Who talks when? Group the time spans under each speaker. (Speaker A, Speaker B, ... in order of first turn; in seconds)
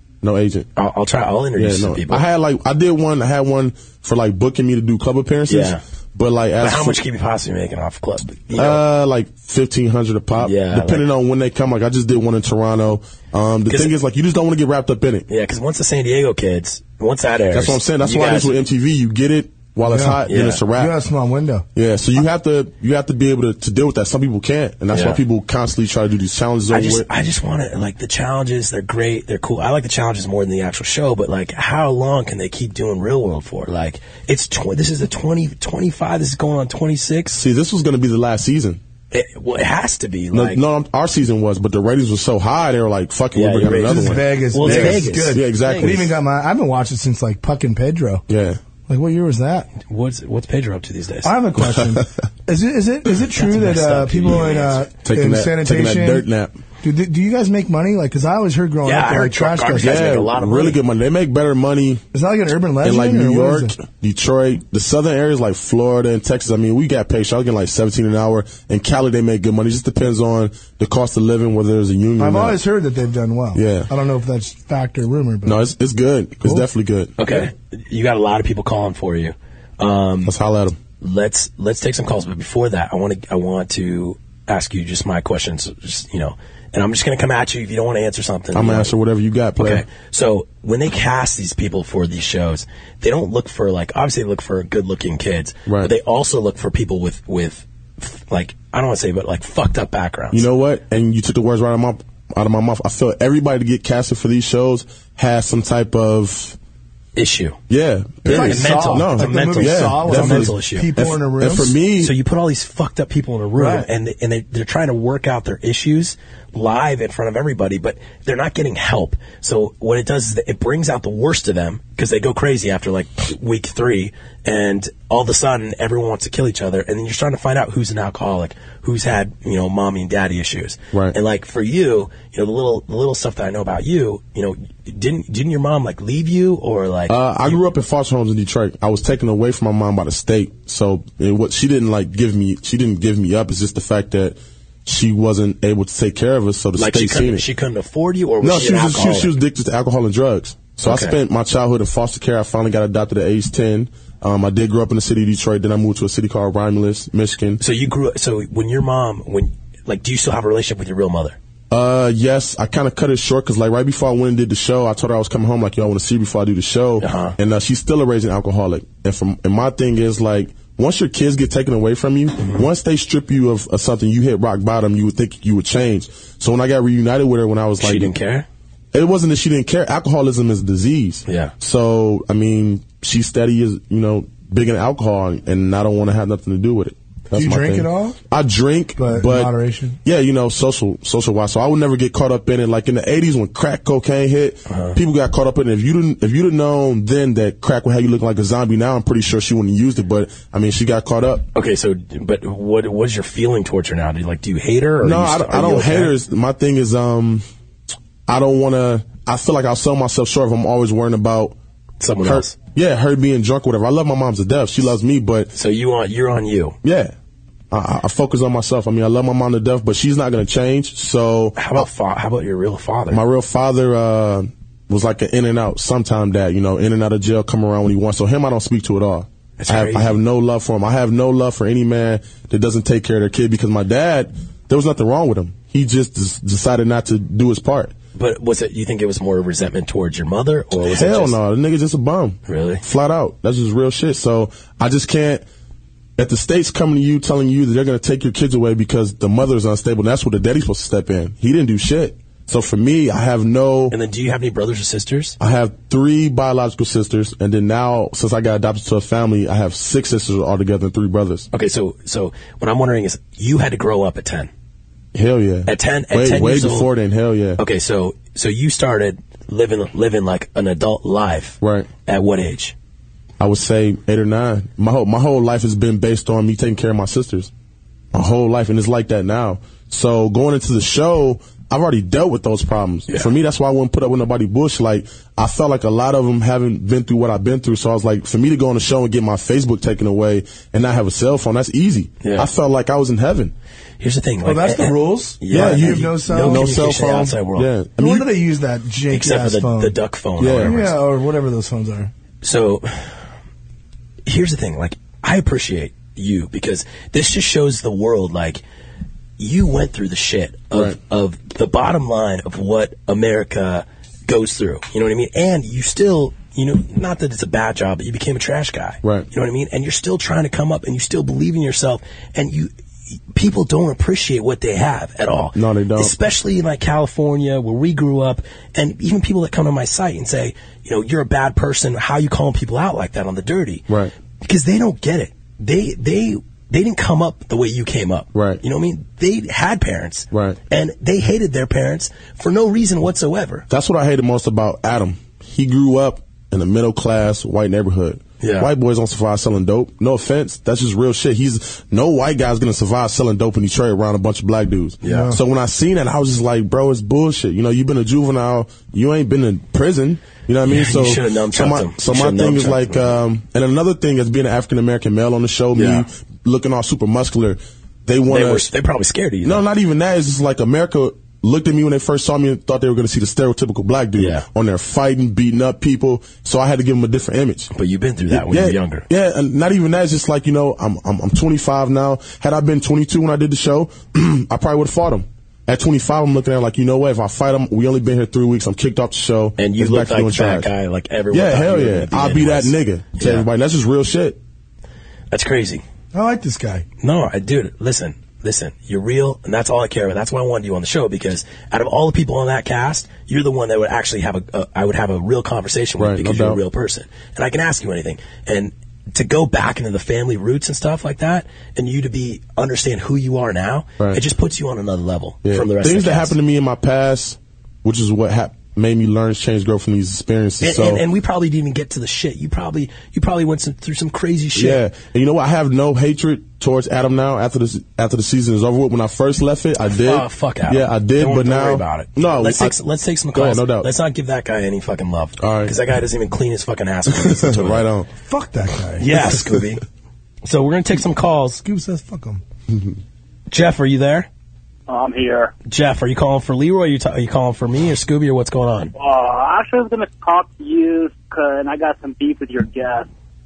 Speaker A: 0.2-0.7, 1.6-7.0, 8.5-15.3, 17.5-20.9, 21.8-27.1, 37.3-38.8, 40.3-46.1, 48.3-48.6, 51.8-52.0, 55.0-56.6, 59.8-62.0, 62.8-72.6, 73.5-73.9, 75.5-77.5, 80.2-80.8, 88.5-89.9, 95.7-95.9, 100.3-106.6, 107.7-112.1, 137.1-147.5, 148.4-157.6, 161.7-178.2, 178.9-201.5, 205.0-207.4, 208.3-211.6, 212.2-215.5, 216.8-217.1, 217.7-221.9, 223.1-237.9, 240.8-245.4, 246.2-253.9, 255.4-261.5, 265.1-267.6, 271.6-271.9, 273.4-277.5, 278.1-293.5, 295.5-298.3, 300.4-300.9, 325.6-326.1, 333.9-334.1, 338.3-338.6, 340.3-340.6, 343.7-368.7, 369.4-377.7, 378.3-390.7, 391.3-394.4, 406.0-406.6, 415.4-421.0, 424.6-432.8, 433.3-433.9, 435.4-435.8, 437.1-438.1, 442.7-443.0
Speaker B: 0.8-2.2, 5.5-5.8, 6.6-8.8, 10.4-11.1, 13.7-13.9, 15.3-18.6, 20.3-20.6, 24.9-25.2, 26.7-37.4, 39.1-40.6, 43.3-46.1, 49.8-51.3, 53.3-54.8, 58.8-60.8, 77.2-80.3, 81.0-89.0, 89.6-100.5, 107.2-107.6, 108.3-110.9, 112.0-137.6, 146.8-149.3, 150.8-151.2, 157.6-161.4, 167.0-167.4, 172.4-172.7, 177.8-178.5, 181.3-181.5, 194.7-195.0, 201.5-206.1, 212.0-212.6, 215.5-216.8, 221.6-223.2, 229.6-230.2, 238.2-241.4, 242.5-242.8, 253.9-255.4, 261.5-264.5, 265.7-266.9, 267.6-272.8, 283.1-283.3, 292.2-292.5, 294.0-297.7, 299.1-300.9, 302.4-303.1, 304.3-308.6, 309.4-322.7, 323.3-333.9, 334.4-343.7, 348.4-348.7, 355.0-355.3, 360.7-363.2, 365.7-366.1, 368.3-369.6, 374.1-374.5, 377.7-379.1, 389.6-393.5, 395.3-395.8, 397.0-416.4, 420.6-424.8, 429.9-437.9, 439.0-439.8, 440.4-441.6, 443.5-444.3, 445.7-448.9
Speaker C: 19.8-21.7, 43.8-48.2, 48.9-49.7, 51.2-56.3, 56.8-60.2, 62.1-63.7, 72.2-75.6, 76.4-76.7, 108.2-111.7, 113.6-113.9, 187.3-188.2, 189.0-190.0, 294.4-297.4, 298.0-300.0, 300.6-302.1, 355.1-355.4, 396.1-396.9, 438.2-439.4, 441.6-442.4
Speaker D: 444.9-445.5, 449.0-453.1